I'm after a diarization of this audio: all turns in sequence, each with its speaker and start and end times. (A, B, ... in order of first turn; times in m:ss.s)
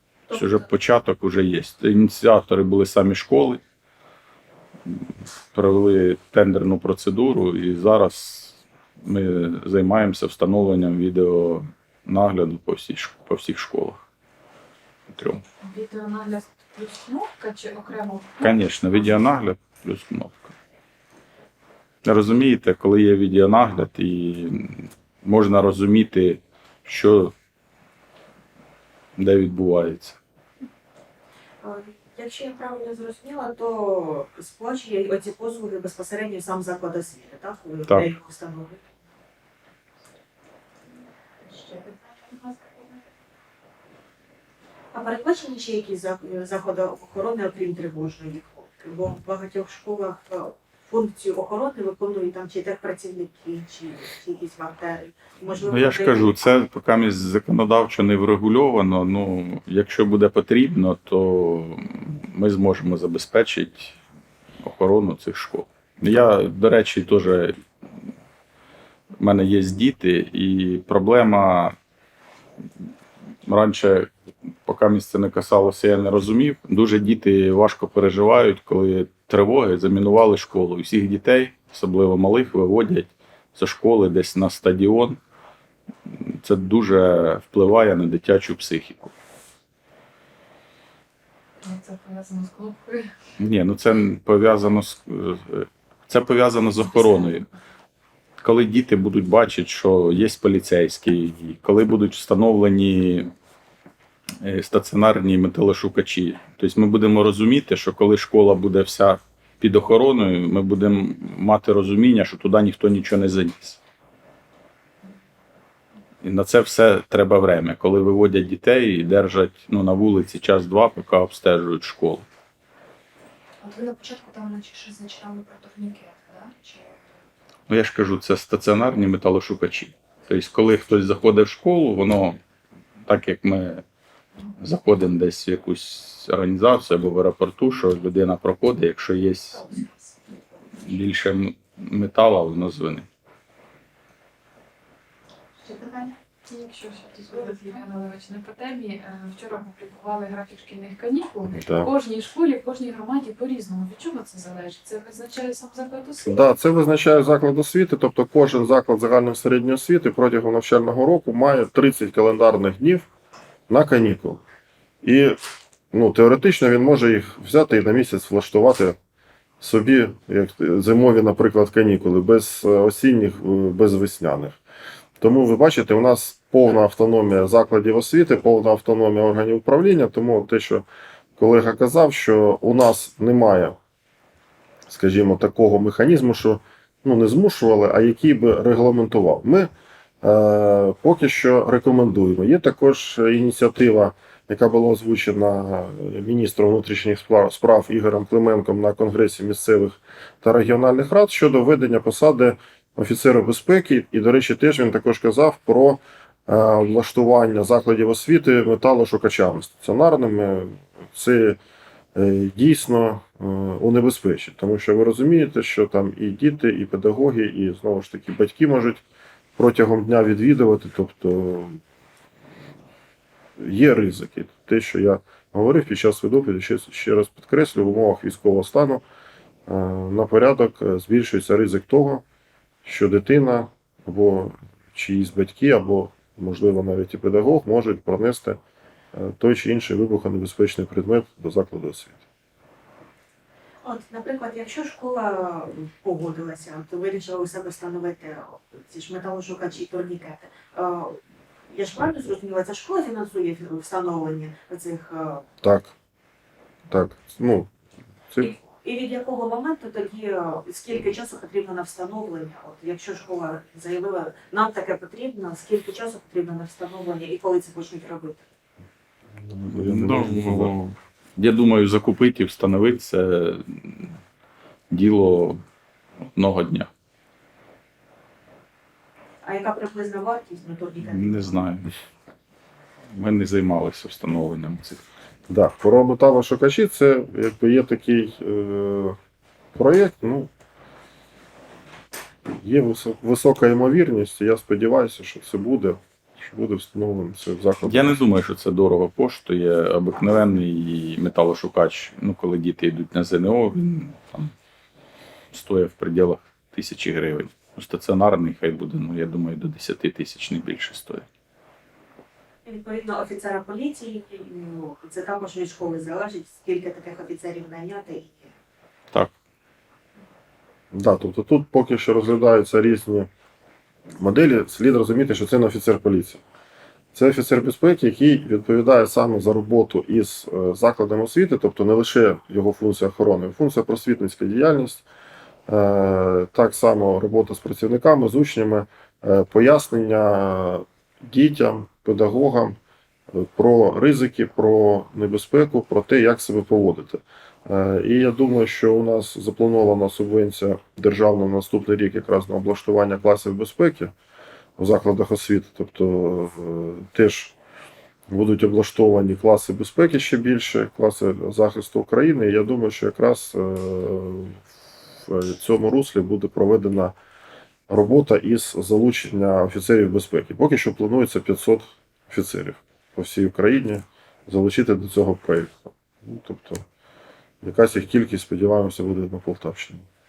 0:00.3-0:03.6 A
0:04.9-0:14.0 A
0:15.1-0:15.4 A
0:15.6-0:18.6 B
0:18.4-0:20.5 A
0:22.0-0:27.3 A
0:29.2-0:30.2 A
0:31.6-0:38.8 C
0:44.9-0:56.4 C
0:55.6-1:04.0 A
1:04.6-1:07.6 A
1:09.2-1:11.7 A
1:13.4-1:14.1 A
1:14.6-1:25.2 A
1:26.1-1:29.1 A
1:31.6-1:33.1 B
1:33.4-1:37.4 A
1:37.0-1:37.3 B
1:38.4-1:43.3 A
1:44.4-1:53.8 A
1:56.2-2:02.2 A
2:03.6-2:07.0 D
2:07.7-2:12.4 A
2:13.1-2:13.8 A
2:14.6-2:19.6 A
2:20.8-2:23.0 A
2:25.6-2:26.2 C
2:26.4-2:36.3 B
2:31.5-2:31.9 E
2:36.2-2:43.1 E
2:43.7-2:44.4 E
2:45.0-2:45.4 E
2:45.9-2:49.0 E
2:49.6-2:54.6 E
2:55.2-3:00.8 E
3:01.4-3:03.8 E
3:04.9-3:09.7 E
3:10.2-3:31.6 E
3:32.1-3:39.0 E
3:39.6-3:41.8 E
3:43.6-3:49.0 E
3:49.7-3:52.2 E
3:52.8-3:58.6 E
3:59.1-4:02.2 E
4:03.8-4:15.4 C
4:15.6-4:15.9 E
4:16.9-4:17.7 E
4:18.4-4:28.4 C
4:29.4-4:30.8 E
4:29.7-4:34.2 A
4:34.9-4:35.6 A
4:36.3-4:36.9 A
4:39.4-4:41.6 C
4:41.0-4:42.0 A
4:43.1-4:45.0 A
4:45.5-4:49.2 E
4:49.7-4:50.5 E
4:52.6-4:58.2 E
4:57.8-5:04.5 A
5:05.5-5:11.2 A
5:12.6-5:18.5 C
5:20.9-5:23.3 E
5:24.2-5:26.4 E
5:27.1-5:35.0 E
5:35.7-5:42.8 E
5:43.3-5:54.1 E
5:54.8-5:57.6 E
5:58.3-6:04.6 E
6:05.2-6:07.1 E
6:07.9-6:16.8 E
6:17.6-6:20.0 E